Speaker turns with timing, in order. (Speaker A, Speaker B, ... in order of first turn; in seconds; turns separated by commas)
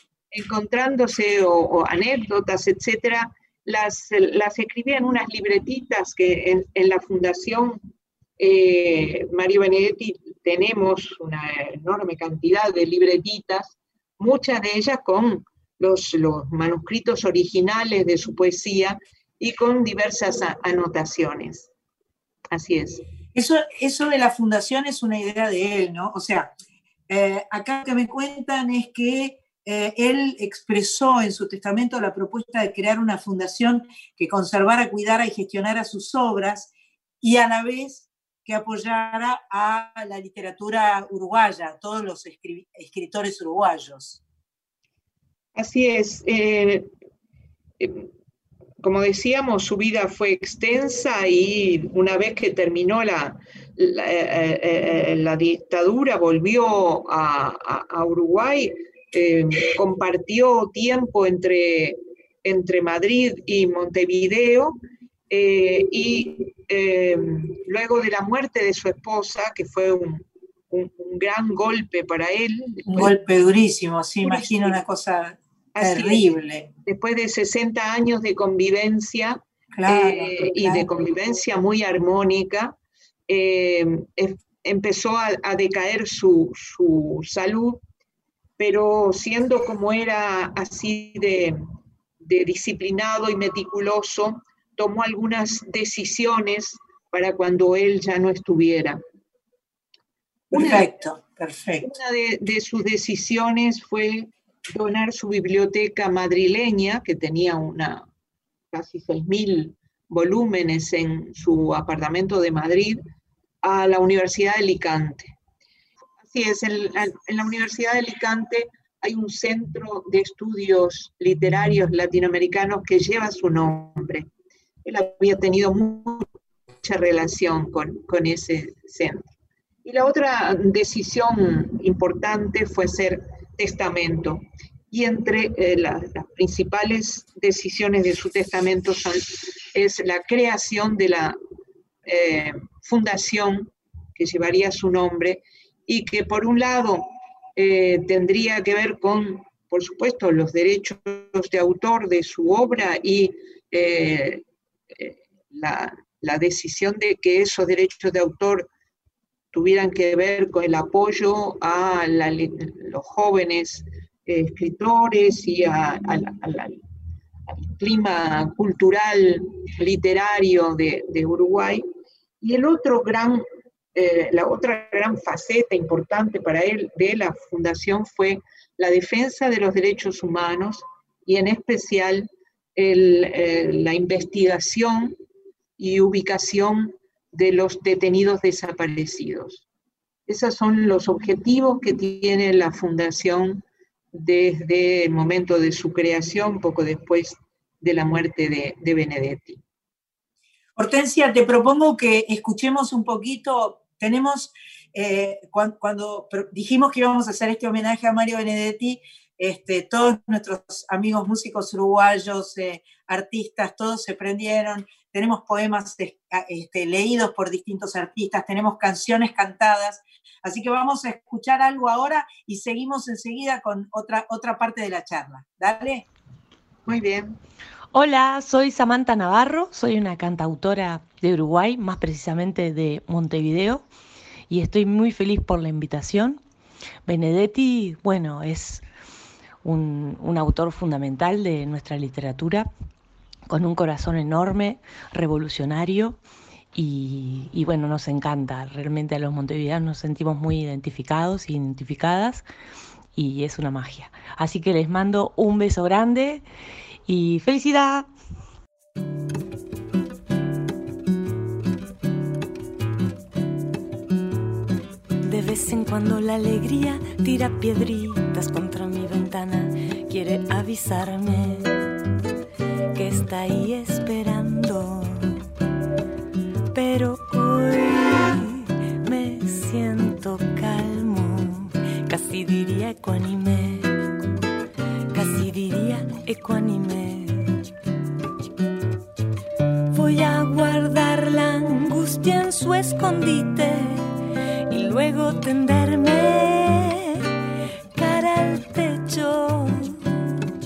Speaker A: 0.3-7.8, Speaker A: 8.4-21.7, Speaker A: 22.5-23.0, Speaker B: 23.4-26.5, Speaker B: 27.1-44.2, Speaker A: 45.5-46.9, Speaker A: 47.8-48.1, Speaker A: 48.8-64.8, Speaker A: 65.3-73.2, Speaker B: 72.9-76.7, Speaker A: 74.2-74.8, Speaker A: 75.8-82.8, Speaker B: 79.8-80.9, Speaker A: 83.3-87.8, Speaker A: 88.6-91.6, Speaker A: 92.2-99.0, Speaker A: 100.5-100.9, Speaker B: 100.5-101.9, Speaker A: 101.8-108.1, Speaker A: 108.7-113.0, Speaker A: 113.6-115.4, Speaker A: 116.3-124.3, Speaker A: 124.8-126.3, Speaker A: 126.8-129.3, Speaker A: 129.8-141.4, Speaker A: 142.1-158.7, Speaker A: 159.5-166.8, Speaker A: 167.5-171.8, Speaker A: 172.4-173.4, Speaker A: 173.9-185.2, Speaker A: 185.8-189.7, Speaker A: 190.3-199.6, Speaker B: 200.8-226.1, Speaker A: 226.9-227.3, Speaker C: 227.9-233.8, Speaker C: 234.5-236.4, Speaker C: 237.1-238.8, Speaker C: 239.6-242.7, Speaker C: 243.5-246.2, Speaker C: 246.7-252.5, Speaker C: 253.2-256.4, Speaker C: 257.1-258.1, Speaker C: 265.2-271.7, Speaker C: 272.9-275.4, Speaker C: 276.7-284.0, Speaker C: 285.1-287.6, Speaker C: 289.9-294.1, Speaker C: 294.7-297.3, Speaker C: 297.9-300.0